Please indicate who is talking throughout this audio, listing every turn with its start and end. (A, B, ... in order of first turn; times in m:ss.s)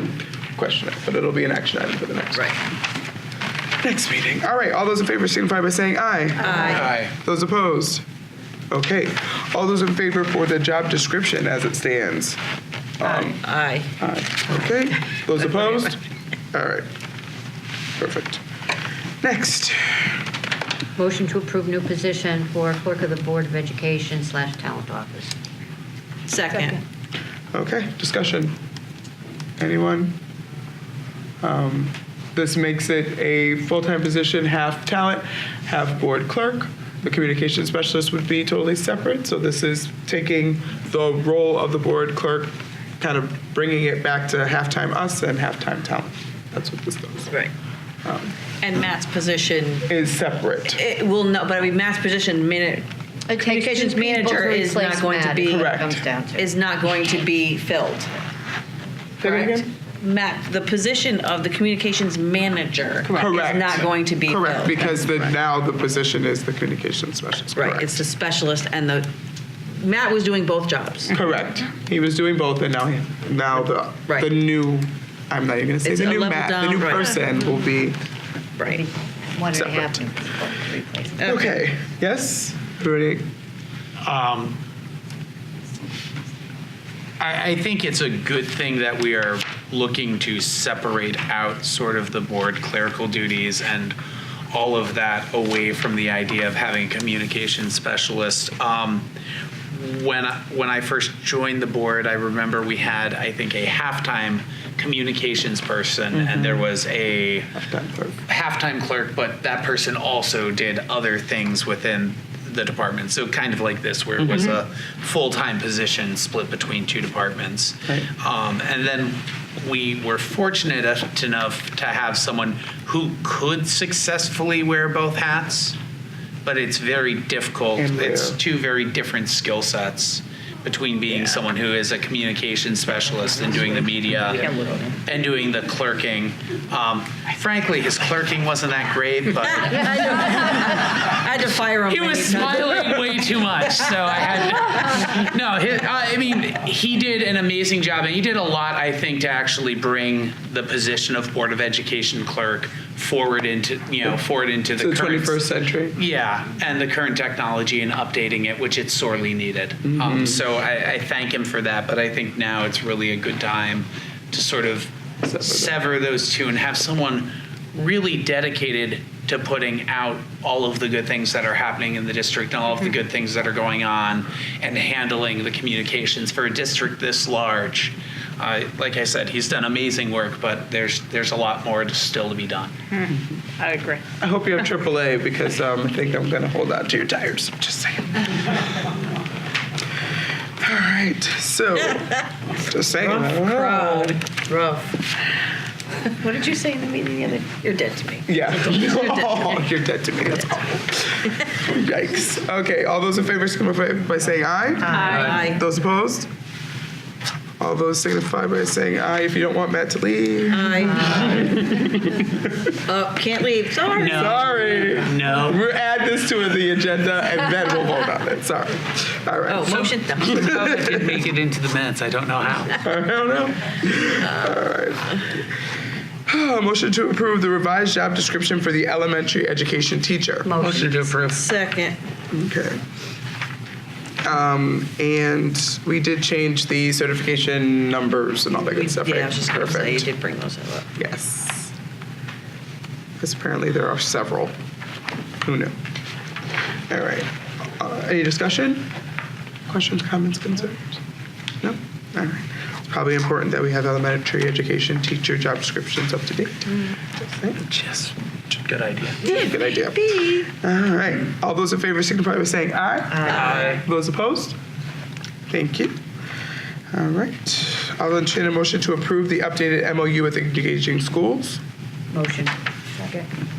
0:00.6-0:02.5 A
0:03.8-0:08.0 A
0:06.4-0:06.9 B
0:06.6-0:07.1 C
0:08.7-0:12.4 A
0:13.0-0:13.4 A
0:13.0-0:13.9 B
0:14.0-0:16.9 A
0:18.0-0:18.4 A
0:19.2-0:20.2 A
0:21.0-0:25.3 D
0:26.3-0:26.8 B
0:27.5-0:28.6 A
0:29.6-0:30.2 A
0:31.4-0:47.4 A
0:48.0-0:48.3 A
0:48.6-0:49.9 B
0:49.9-0:50.8 A
0:50.7-0:55.8 B
0:53.3-0:56.5 D
0:55.5-0:56.0 A
0:56.3-0:58.1 B
0:59.2-0:59.7 A
0:59.2-1:05.1 B
1:03.1-1:08.0 A
1:07.6-1:09.1 B
1:09.7-1:11.2 B
1:11.1-1:18.0 A
1:15.8-1:17.2 B
1:18.6-1:18.8 B
1:18.7-1:21.2 D
1:19.5-1:20.0 A
1:21.2-1:21.6 B
1:21.2-1:23.3 A
1:24.0-1:24.6 C
1:27.2-1:34.0 C
1:34.5-1:39.1 C
1:39.7-1:47.6 C
1:46.1-1:46.7 A
1:47.6-1:48.2 A
1:48.3-2:05.8 C
1:54.2-1:54.6 A
2:06.4-2:20.8 C
2:07.8-2:08.4 A
2:14.4-2:15.0 D
2:19.5-2:23.2 B
2:21.9-2:35.4 C
2:34.8-2:36.0 A
2:36.0-3:02.8 C
2:39.8-2:40.4 A
2:45.2-2:45.8 A
3:03.1-3:03.4 A
3:03.7-3:04.0 B
3:04.2-3:08.8 A
3:10.6-3:14.2 A
3:13.0-3:15.0 B
3:16.2-3:19.7 B
3:18.3-3:26.3 A
3:24.9-3:25.4 D
3:24.9-3:25.6 B
3:27.6-3:32.5 A
3:30.5-3:31.4 B
3:30.8-3:32.0 D
3:32.9-3:34.9 B
3:33.9-3:35.6 C
3:34.0-3:41.2 A
3:39.5-3:40.5 B
3:39.7-3:42.8 C
3:42.8-3:45.4 A
3:46.3-3:50.5 A
3:50.4-3:51.1 D
3:50.6-3:51.5 C
3:51.3-3:52.0 B
3:52.3-3:52.8 A
3:54.2-4:00.1 A
3:58.5-4:00.9 B
4:01.0-4:01.7 A
4:03.2-4:04.5 A
4:05.4-4:05.7 A
4:06.9-4:08.9 A
4:09.7-4:11.0 A
4:11.6-4:18.1 A
4:18.5-4:19.3 C
4:19.2-4:24.6 A
4:19.2-4:20.5 B
4:23.1-4:23.5 D
4:23.3-4:23.8 C
4:25.5-4:26.0 A
4:26.9-4:31.6 A
4:32.1-4:33.3 D